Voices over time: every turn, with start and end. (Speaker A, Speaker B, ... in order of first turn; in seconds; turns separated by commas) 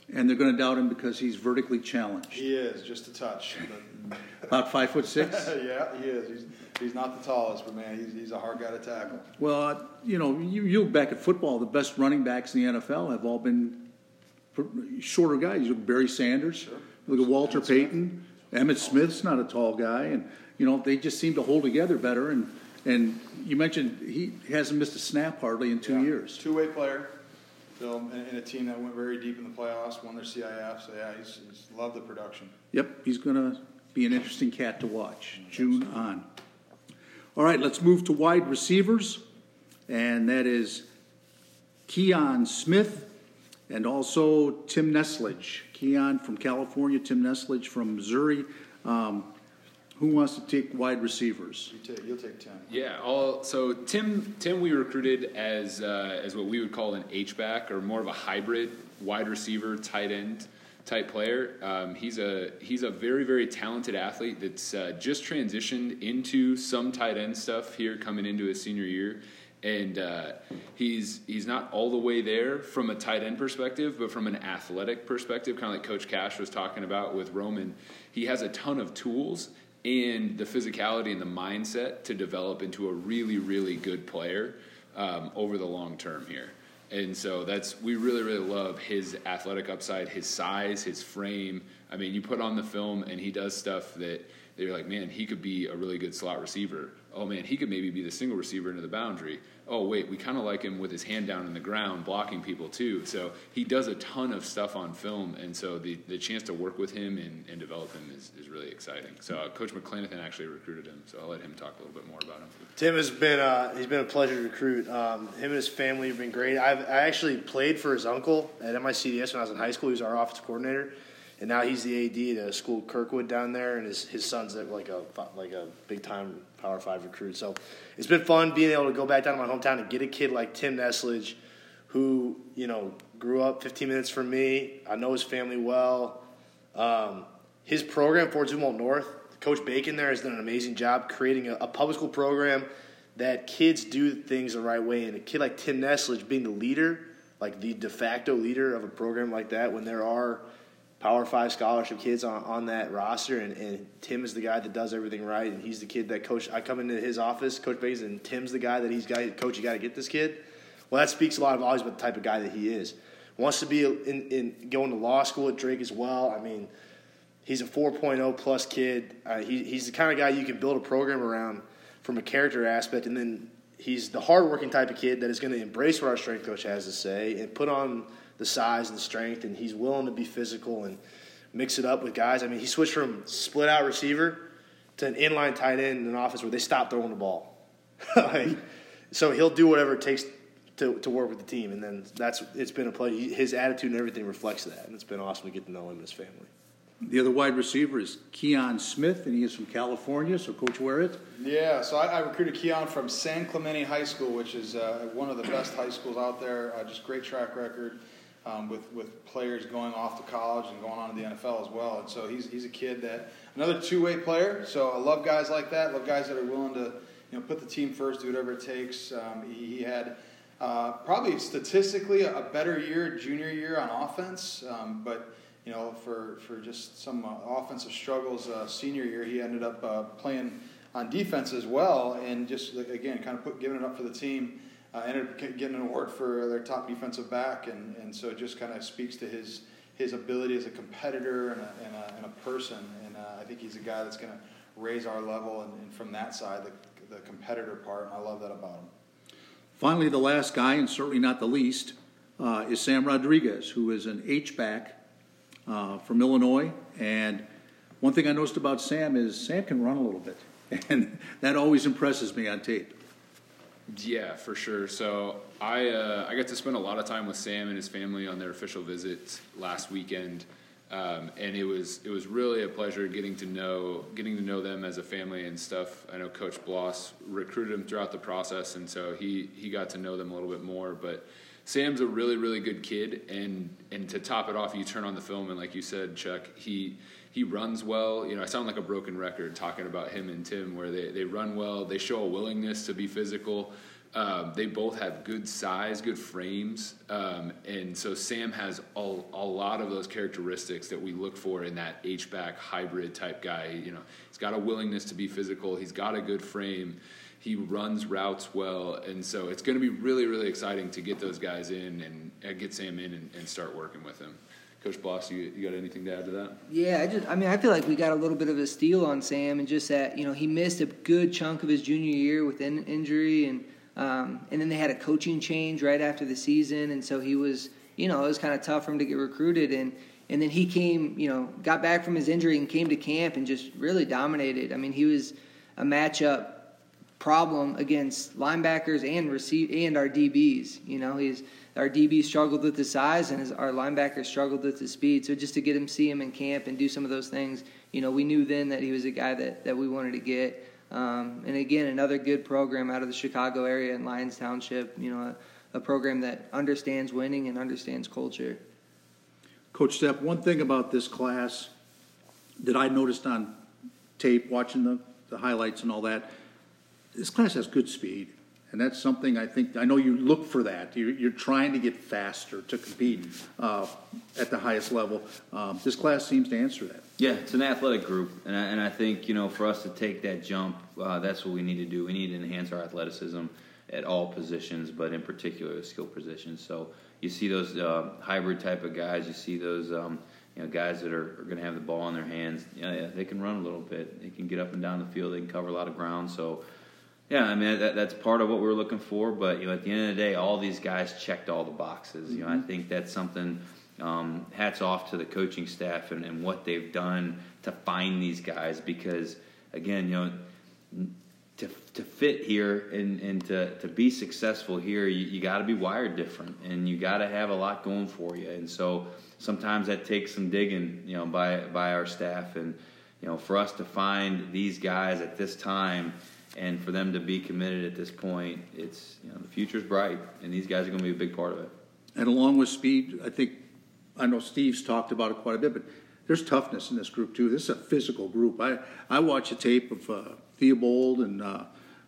Speaker A: 0.1-2.5, Speaker B: 2.3-4.5, Speaker A: 4.5-5.5, Speaker B: 5.2-9.3, Speaker A: 9.4-13.9, Speaker A: 14.5-26.4, Speaker B: 16.6-17.9, Speaker B: 25.8-27.2, Speaker B: 27.8-32.5, Speaker A: 32.7-36.2, Speaker A: 37.4-39.2, Speaker A: 39.9-40.9, Speaker A: 41.9-43.1, Speaker A: 43.7-49.3, Speaker A: 50.0-51.7, Speaker B: 51.7-52.7, Speaker C: 52.7-112.6, Speaker D: 112.8-131.4, Speaker D: 131.9-150.4, Speaker D: 151.0-166.7, Speaker D: 167.4-181.0, Speaker D: 181.5-184.4, Speaker D: 185.0-196.5, Speaker A: 197.0-201.2, Speaker B: 201.3-248.9, Speaker A: 249.8-255.0, Speaker A: 255.7-257.4, Speaker A: 258.0-263.0, Speaker C: 263.9-316.6, Speaker E: 316.7-358.6, Speaker A: 359.7-361.7, Speaker A: 362.6-363.6, Speaker A: 364.2-366.3, Speaker A: 367.1-377.0, Speaker F: 377.2-396.6, Speaker F: 397.3-431.7, Speaker A: 432.1-433.6, Speaker A: 434.2-441.7